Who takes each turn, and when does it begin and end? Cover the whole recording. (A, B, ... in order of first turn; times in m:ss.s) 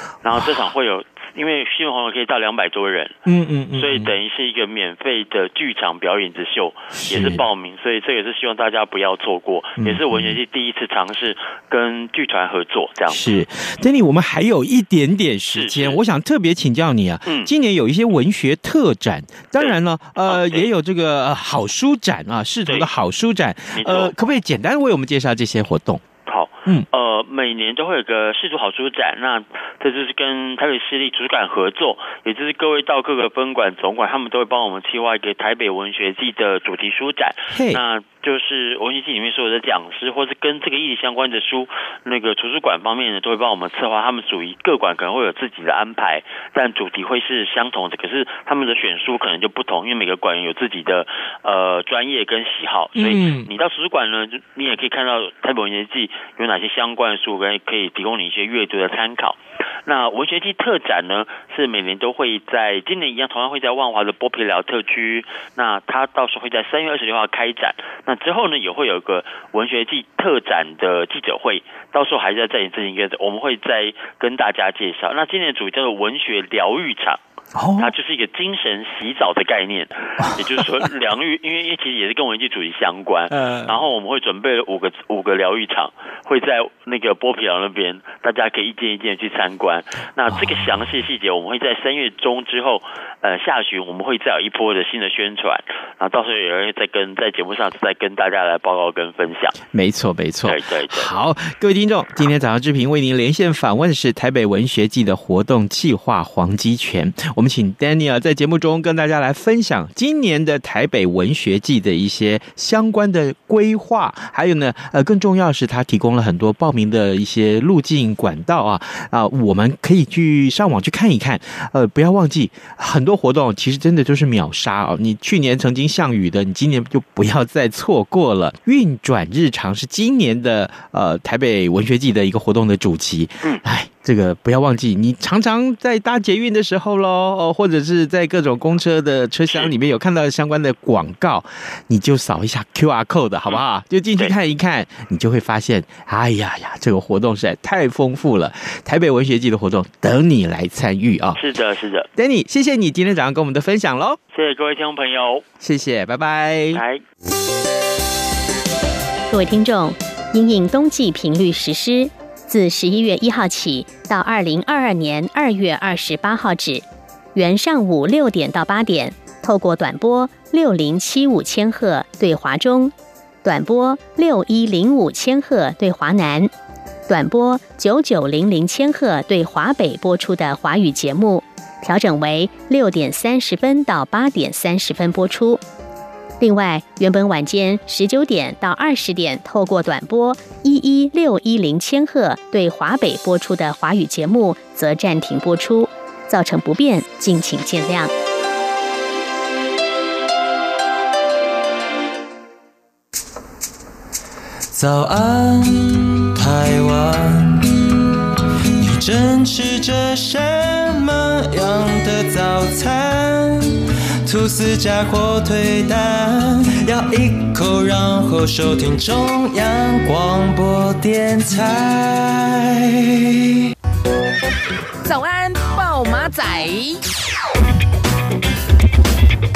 0:00.2-0:03.2 A
0:03.3-0:04.1 B
0:03.7-0:13.3 A
0:06.9-0:07.4 B
0:09.8-0:10.4 B
0:13.1-0:26.0 B
0:15.5-0:16.0 A
0:19.6-0:20.7 A
0:23.7-0:24.1 A
0:26.3-1:17.2 A
0:37.5-0:37.8 B
0:53.0-0:53.5 B
1:17.6-1:17.9 B
1:17.8-1:39.6 A
1:20.2-1:20.8 B
1:23.3-1:23.7 B
1:30.4-1:30.6 B
1:39.7-2:31.4 B
1:40.4-1:41.1 A
2:31.3-2:32.1 A
2:32.2-2:34.2 B
2:34.3-2:35.4 A
2:35.6-2:36.8 B
2:36.7-2:37.0 A
2:39.3-2:52.9 C
2:53.4-2:56.5 C
2:57.1-3:05.6 C
3:06.4-3:18.1 C
3:24.7-3:27.6 D
3:28.8-3:43.4 D
3:45.0-3:47.0 E